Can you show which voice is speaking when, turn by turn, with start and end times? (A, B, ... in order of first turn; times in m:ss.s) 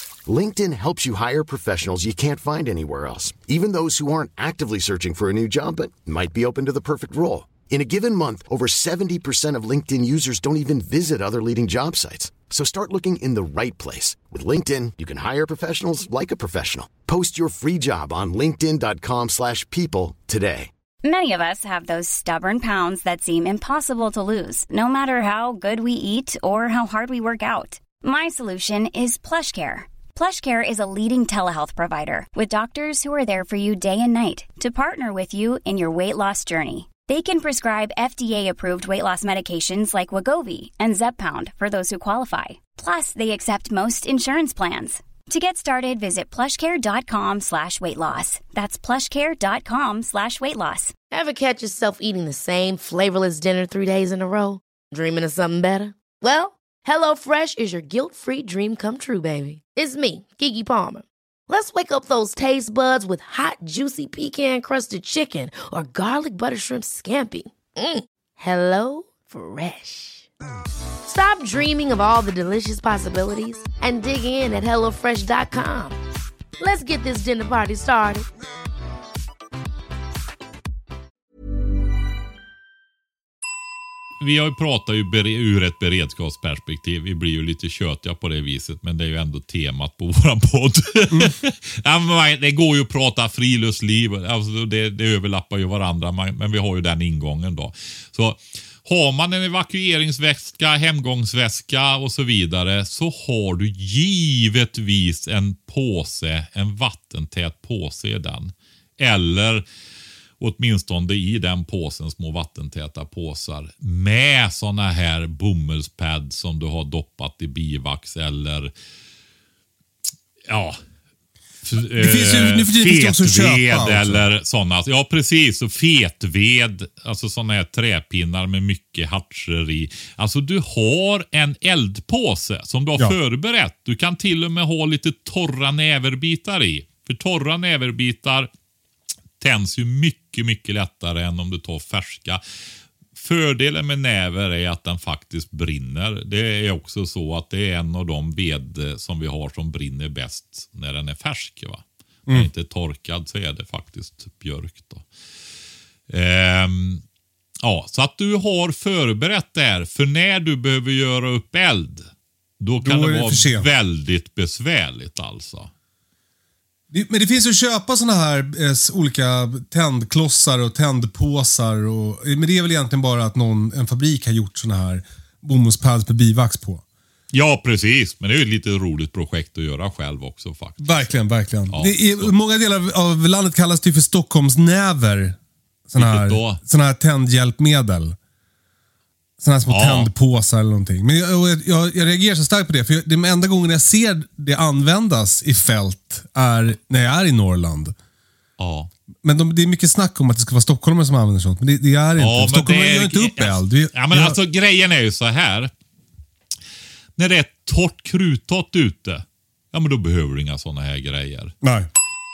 0:00.3-0:20.7 A
0:21.0-0:50.9 B
0:51.1-1:10.3 C
1:11.1-1:16.0 C
1:16.6-1:18.3 C
1:24.2-1:49.6 D
1:50.4-1:58.7 D
2:00.5-2:00.8 D
2:01.6-2:18.5 D
2:01.8-2:04.3 E
2:19.4-2:22.4 D
2:23.2-2:35.1 D
2:36.1-2:37.0 D
2:37.6-2:42.1 D
2:42.6-2:45.7 D
2:42.8-2:43.7 E
2:46.9-2:56.8 E
2:57.3-3:02.3 D
3:00.8-3:05.4 E
3:05.9-3:08.2 E
3:06.0-3:06.6 D
3:09.4-3:18.0 E
3:09.7-3:10.1 D
3:18.6-3:18.9 D
3:19.2-3:24.4 E
3:22.2-3:25.7 D
3:27.2-3:31.5 D
3:31.6-3:31.9 E